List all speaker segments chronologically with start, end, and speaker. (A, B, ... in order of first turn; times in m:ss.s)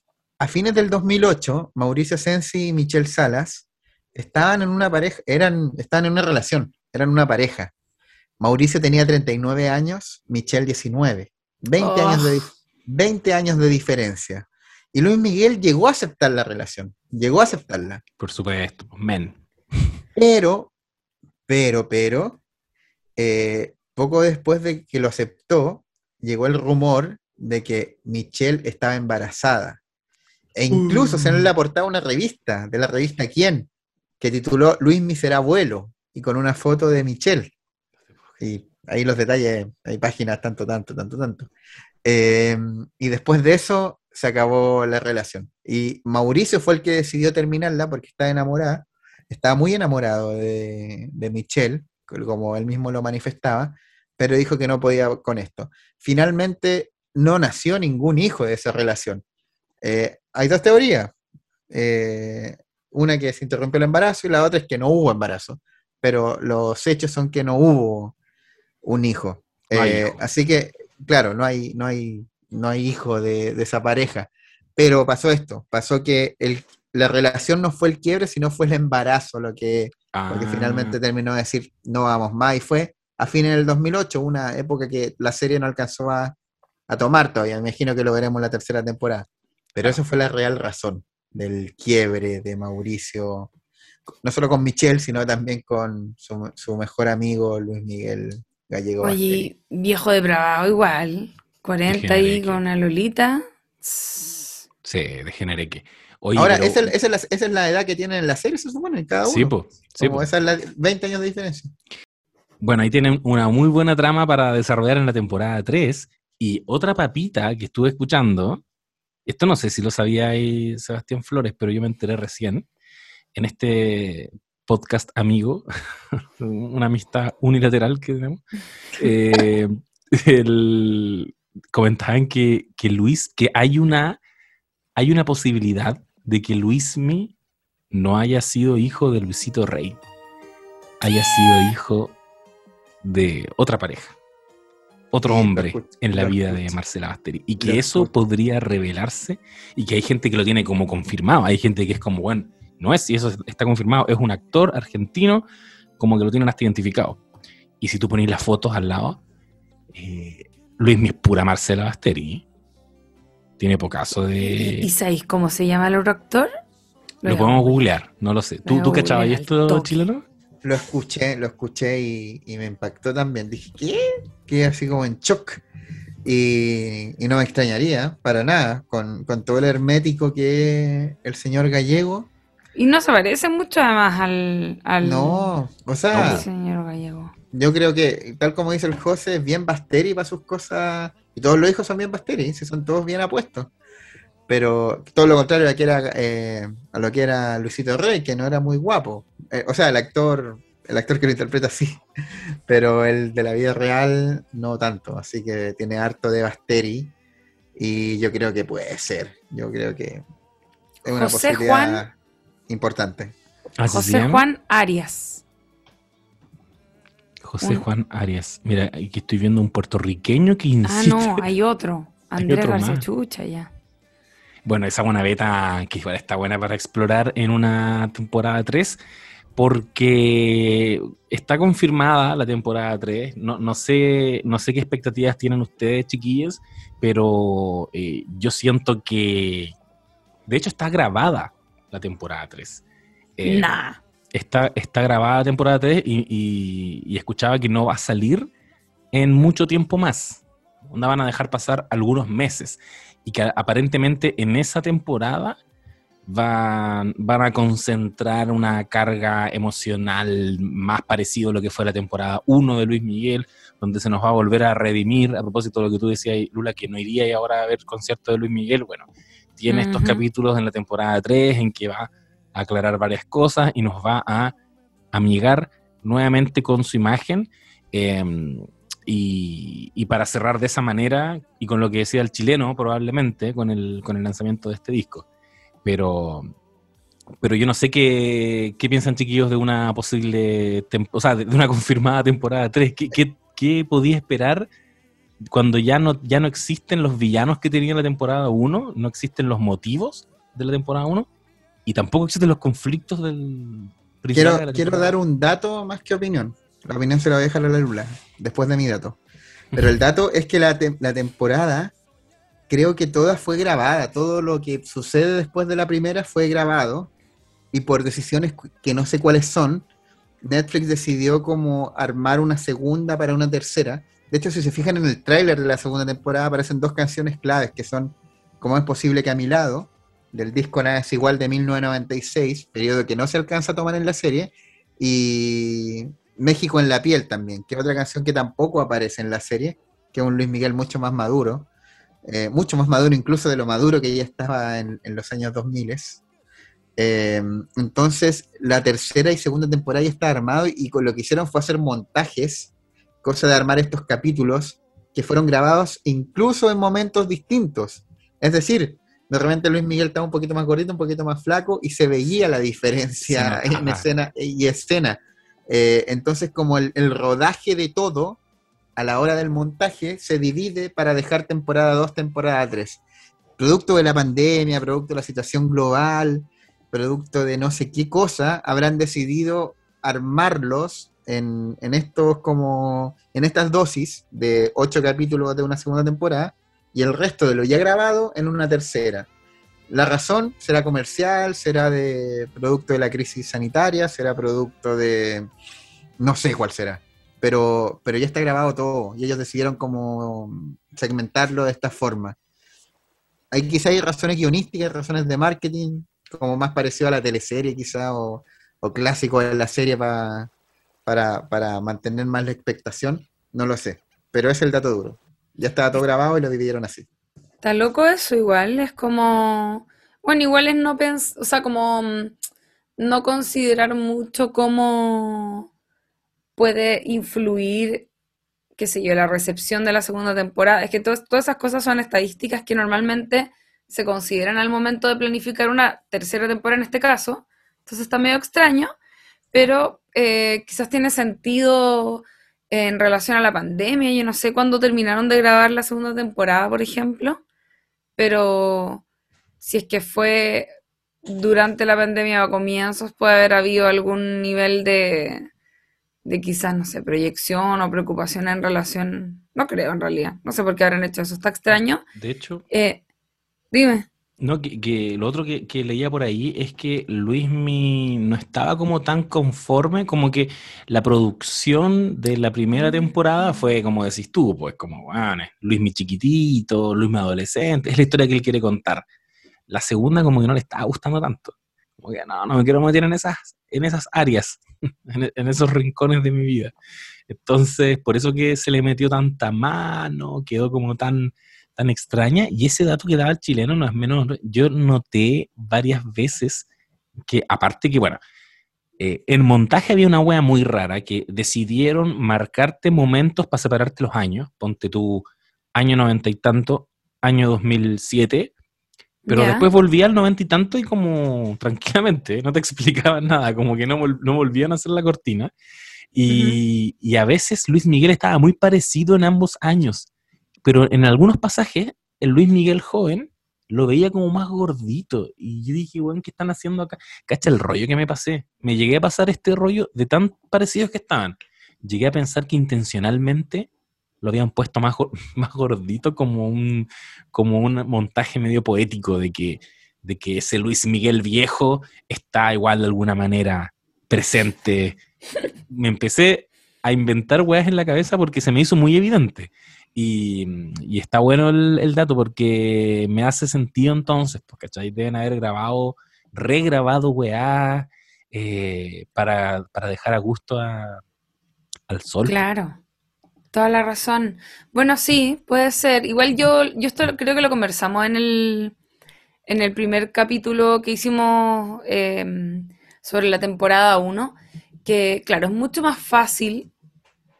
0:00.4-0:07.7 A
0:08.4-0:18.0 A
0:11.8-0:12.5 B
0:18.2-0:19.4 C
0:20.2-0:20.7 A
0:21.5-0:22.4 A
0:23.2-0:29.8 A
0:30.5-0:33.7 A
0:30.7-0:31.5 C
0:34.2-0:37.5 A
0:38.4-0:41.5 A
0:42.0-0:59.2 A
0:59.8-1:01.1 A
1:01.7-1:08.1 A
1:08.8-1:26.4 A
1:09.7-1:10.2 C
1:20.1-1:21.0 C
1:26.9-1:33.5 A
1:34.2-1:39.5 A
1:39.0-1:44.6 B
1:41.9-1:42.6 C
1:44.8-1:46.9 C
1:46.4-1:51.7 A
1:49.2-1:50.2 C
1:52.6-1:58.6 C
1:59.2-2:02.7 C
2:03.3-2:05.6 C
2:06.2-2:08.4 C
2:09.0-2:14.2 C
2:15.0-2:17.3 C
2:17.9-2:20.0 C
2:21.0-2:22.2 C
2:23.0-2:24.2 C
2:25.1-2:35.4 C
2:25.2-2:26.8 A
2:27.6-2:28.1 A
2:36.0-2:37.2 C
2:37.8-2:39.2 C
2:39.9-2:42.4 C
2:43.6-2:44.9 C
2:44.4-2:46.5 B
2:47.2-2:47.8 B
2:47.2-2:50.2 C
2:48.6-2:50.0 B
2:50.6-2:55.6 A
2:56.2-3:02.3 A
3:02.8-3:05.5 B
3:05.0-3:06.4 A
3:06.1-3:06.5 C
3:06.2-3:07.3 B
3:07.5-3:13.7 A
3:14.5-3:22.0 A
3:22.7-3:27.1 A
3:27.8-3:30.2 A
3:31.0-3:32.1 A
3:31.1-3:32.0 B
3:32.7-3:33.3 A
3:33.8-3:34.4 C
3:33.9-3:35.4 B
3:37.4-3:41.4 C
3:40.8-3:43.7 B
3:42.4-3:43.0 C
3:44.6-3:49.0 C
3:49.6-3:59.7 C
4:00.5-4:02.8 C
4:03.4-4:03.7 C
4:03.4-4:04.0 B
4:04.3-4:08.5 C
4:09.1-4:15.6 C
4:16.2-4:34.5 C
4:29.7-4:30.2 B
4:35.1-4:45.2 C
4:45.8-4:46.5 C
4:47.4-4:54.7 C
4:55.5-5:01.3 C
5:01.8-5:05.1 C
5:04.3-5:09.2 A
5:09.7-5:11.9 A
5:12.7-5:17.1 A
5:17.7-5:19.8 A
5:20.4-5:41.7 A
5:42.2-5:46.2 A
5:47.0-6:08.4 A
6:03.3-6:04.0 C
6:09.0-6:13.0 A
6:13.6-6:29.3 A
6:29.9-6:35.5 A
6:36.2-6:42.4 A
6:43.5-6:50.5 A
6:51.0-6:57.1 A
6:57.6-7:02.3 B
7:03.0-7:05.7 B
7:06.6-7:08.1 B
7:08.8-7:18.9 B
7:19.5-7:27.4 B
7:28.2-7:29.0 B
7:29.6-7:30.7 B
7:31.2-7:35.5 B
7:36.2-7:42.0 B
7:42.1-7:42.6 C
7:42.7-7:43.0 B
7:43.7-7:44.1 B
7:44.4-7:59.0 C
7:52.7-7:53.7 B
7:59.7-8:06.7 C
8:07.3-8:16.6 C
8:17.3-8:18.2 C
8:19.0-8:28.5 C
8:29.2-8:35.5 C
8:29.3-8:29.7 B
8:36.1-8:40.1 C
8:36.3-8:36.6 B
8:40.6-8:53.7 C
8:54.2-9:05.0 C
9:05.7-9:21.0 C
9:21.9-9:22.4 C
9:22.2-9:22.8 B
9:23.5-9:28.7 B
9:29.5-9:36.7 B